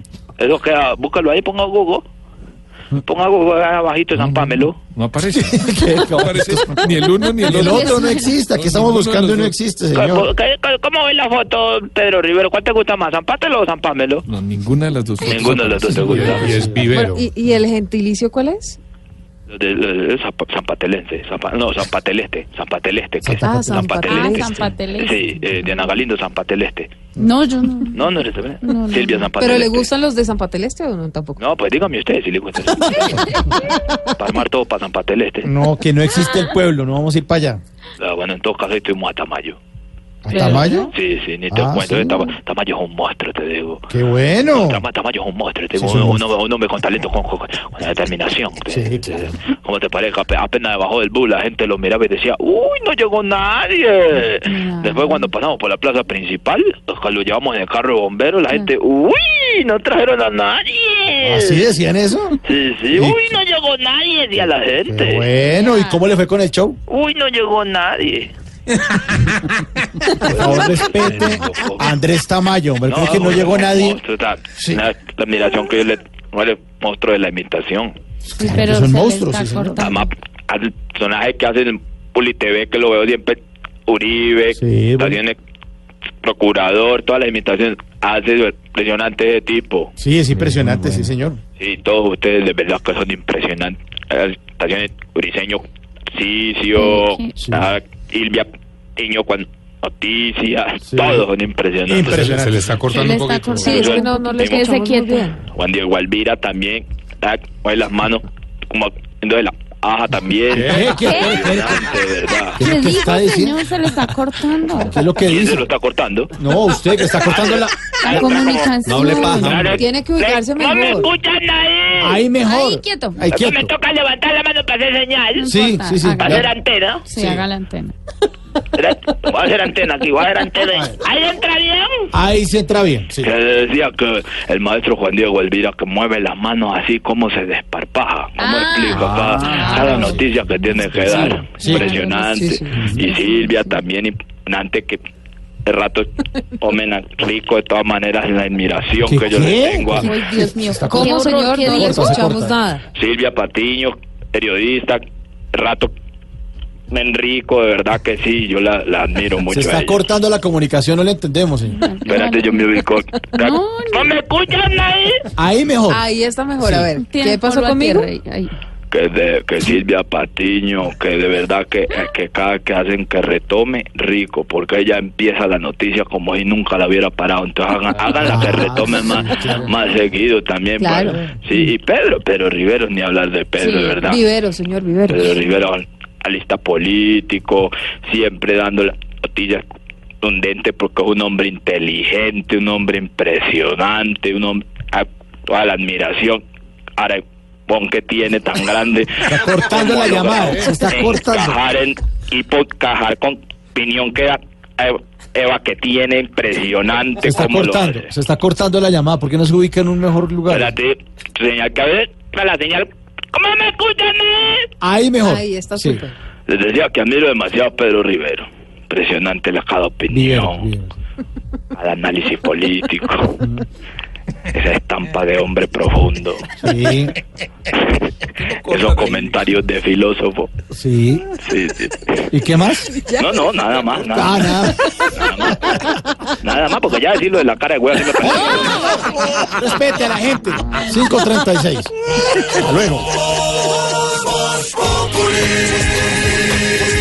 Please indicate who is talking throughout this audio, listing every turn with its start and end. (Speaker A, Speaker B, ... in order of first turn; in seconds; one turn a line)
Speaker A: 0.4-2.0
Speaker A: 3.0-4.8
Speaker B: 4.1-9.6
Speaker C: 5.3-10.3
Speaker D: 7.5-8.4
Speaker A: 9.9-14.2
Speaker B: 14.2-17.3
Speaker A: 15.2-16.5
Speaker C: 16.3-16.9
Speaker E: 16.9-18.8
Speaker A: 19.5-26.9
Speaker C: 23.2-24.1
Speaker E: 23.4-24.6
Speaker D: 24.0-25.9
Speaker D: 27.1-29.3
Speaker A: 27.9-29.9
Speaker E: 29.4-31.4
Speaker A: 31.4-33.4
Speaker A: 34.1-35.5
Speaker C: 35.4-37.6
Speaker A: 38.0-39.6
Speaker C: 40.2-40.9
Speaker D: 40.3-40.9
Speaker A: 40.9-43.8
Speaker C: 41.5-42.3
Speaker C: 43.9-44.8
Speaker A: 44.5-61.7
Speaker C: 45.7-46.2
Speaker C: 48.7-49.3
Speaker D: 54.4-55.3
Speaker C: 61.2-62.4
Speaker A: 62.4-65.3
Speaker C: 62.9-63.2
Speaker C: 64.4-66.8
Speaker D: 65.4-66.0
Speaker A: 66.9-68.3
Speaker C: 70.1-74.0
Speaker A: 70.3-71.9
Speaker A: 72.8-78.0
Speaker D: 78.3-80.1
Speaker C: 78.4-80.0
Speaker A: 79.8-85.4
Speaker C: 84.5-85.2
Speaker A: 86.2-89.9
Speaker C: 90.0-91.4
Speaker B: 90.4-91.0
Speaker A: 91.6-95.6
Speaker A: 96.1-102.3
Speaker D: 96.7-97.3
Speaker C: 97.4-97.7
Speaker C: 100.8-101.3
Speaker C: 101.8-102.7
Speaker B: 102.1-103.9
Speaker D: 102.8-105.3
Speaker E: 103.5-105.4
Speaker A: 103.7-104.7
Speaker A: 105.5-112.6
Speaker C: 110.5-112.0
Speaker B: 110.5-110.9
Speaker D: 111.0-111.5
Speaker D: 112.5-115.0
Speaker C: 112.6-113.7
Speaker C: 114.7-115.7
Speaker A: 115.2-116.3
Speaker C: 116.4-119.7
Speaker A: 117.1-122.2
Speaker D: 118.0-119.6
Speaker B: 118.8-119.8
Speaker E: 119.6-121.1
Speaker C: 122.0-123.7
Speaker D: 122.4-123.2
Speaker A: 123.2-125.6
Speaker D: 125.4-126.5
Speaker C: 125.4-126.5
Speaker A: 126.2-127.2
Speaker D: 127.1-127.9
Speaker C: 127.1-127.4
Speaker A: 128.7-132.0
Speaker C: 130.7-131.0
Speaker C: 132.1-133.3
Speaker A: 133.2-145.0
Speaker D: 138.4-141.0
Speaker C: 139.1-140.2
Speaker C: 141.0-142.0
Speaker D: 141.6-143.8
Speaker E: 142.2-142.9
Speaker A: 145.7-150.2
Speaker C: 149.0-152.6
Speaker D: 150.0-152.2
Speaker E: 150.4-152.8
Speaker A: 152.9-155.9
Speaker A: 156.9-160.0
Speaker C: 159.5-161.8
Speaker D: 161.8-162.8
Speaker A: 162.0-165.2
Speaker D: 163.4-164.1
Speaker C: 165.3-166.0
Speaker E: 165.9-168.1
Speaker C: 166.6-166.9
Speaker D: 166.9-168.5
Speaker A: 168.9-184.2
Speaker C: 178.1-179.8
Speaker E: 180.8-181.2
Speaker D: 183.6-184.0
Speaker E: 184.0-185.4
Speaker A: 185.1-189.6
Speaker A: 190.2-196.4
Speaker A: 197.0-208.1
Speaker C: 199.3-201.6
Speaker C: 207.2-210.7
Speaker A: 210.5-214.7
Speaker C: 214.8-216.0
Speaker E: 215.2-216.1
Speaker A: 216.5-220.7
Speaker C: 220.1-220.9
Speaker A: 221.7-223.4
Speaker A: 224.5-226.4
Speaker C: 226.6-227.1
Speaker A: 227.7-230.5
Speaker B: 228.3-229.5
Speaker C: 230.7-231.3
Speaker A: 231.4-232.2
Speaker C: 232.3-232.9
Speaker E: 233.1-233.4
Speaker A: 233.2-239.2
Speaker C: 234.1-235.0
Speaker C: 238.2-241.9
Speaker E: 238.3-238.9
Speaker C: 242.5-243.1